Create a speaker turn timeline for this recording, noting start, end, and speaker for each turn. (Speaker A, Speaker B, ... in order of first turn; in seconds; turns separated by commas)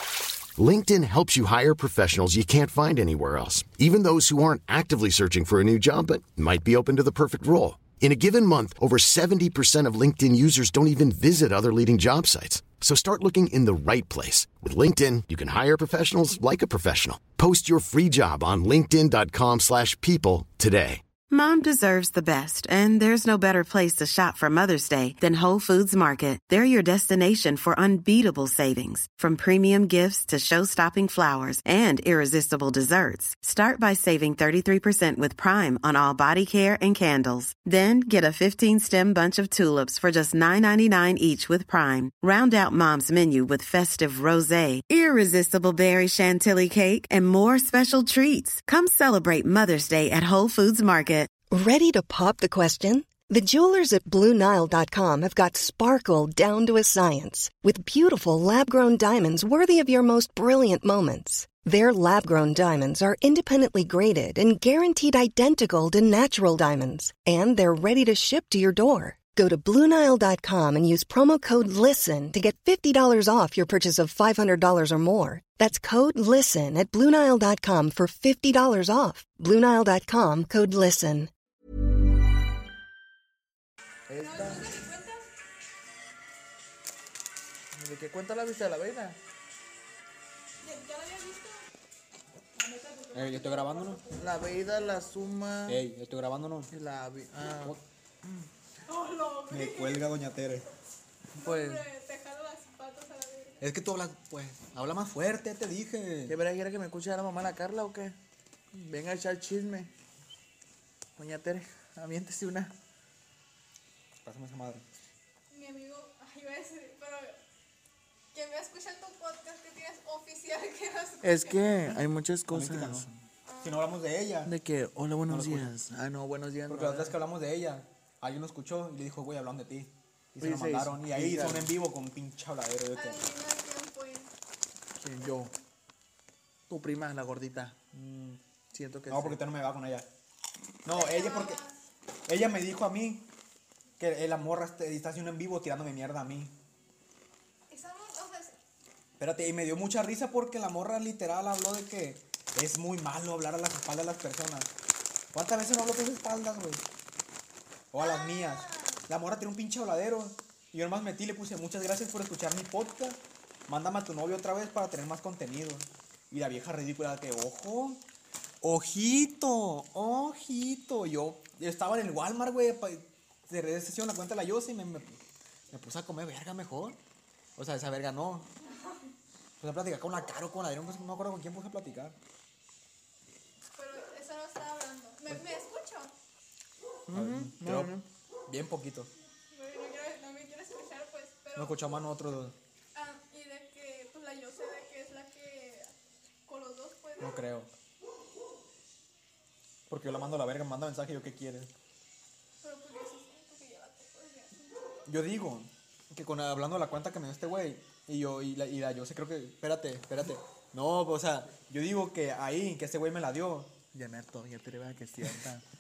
Speaker A: 0.6-21.0, Speaker B: 21.3-51.3, Speaker C: 51.5-81.3, Speaker D: 84.1-84.7, Speaker E: 84.2-85.3, Speaker D: 87.7-89.2, Speaker E: 90.6-91.6, Speaker E: 92.6-95.1, Speaker F: 93.1-94.0, Speaker D: 94.1-95.8, Speaker F: 95.7-96.7, Speaker D: 96.7-98.4, Speaker E: 98.9-100.1, Speaker F: 99.5-100.7, Speaker D: 101.3-101.8, Speaker E: 101.4-103.6, Speaker F: 103.6-106.4, Speaker D: 106.3-108.1, Speaker D: 108.7-109.9, Speaker D: 111.2-112.7, Speaker F: 114.2-114.8, Speaker E: 115.5-117.4, Speaker E: 118.3-121.8, Speaker D: 121.2-123.1, Speaker F: 122.5-124.5, Speaker E: 123.5-123.8, Speaker D: 124.5-127.2, Speaker F: 125.3-125.7, Speaker F: 126.7-133.2, Speaker D: 130.4-131.7, Speaker E: 132.9-134.3, Speaker D: 135.0-135.5, Speaker D: 136.7-137.8, Speaker F: 137.9-138.4, Speaker D: 138.7-139.4, Speaker F: 139.1-140.1, Speaker F: 140.8-141.6, Speaker E: 140.9-141.7, Speaker F: 142.3-143.3, Speaker F: 144.0-146.5, Speaker E: 147.7-148.6, Speaker F: 149.2-154.7, Speaker F: 155.3-156.8, Speaker F: 157.9-168.0, Speaker E: 158.0-159.0, Speaker F: 168.6-177.0, Speaker F: 177.6-178.5, Speaker F: 179.6-182.2, Speaker E: 183.7-186.1, Speaker D: 187.1-188.0, Speaker F: 187.1-187.9, Speaker F: 188.5-189.1, Speaker E: 189.5-192.0, Speaker F: 191.6-192.6, Speaker E: 192.9-195.9, Speaker E: 196.4-197.4, Speaker F: 197.2-197.7, Speaker F: 199.9-201.7, Speaker E: 202.6-205.0, Speaker F: 205.1-213.7, Speaker D: 213.9-215.6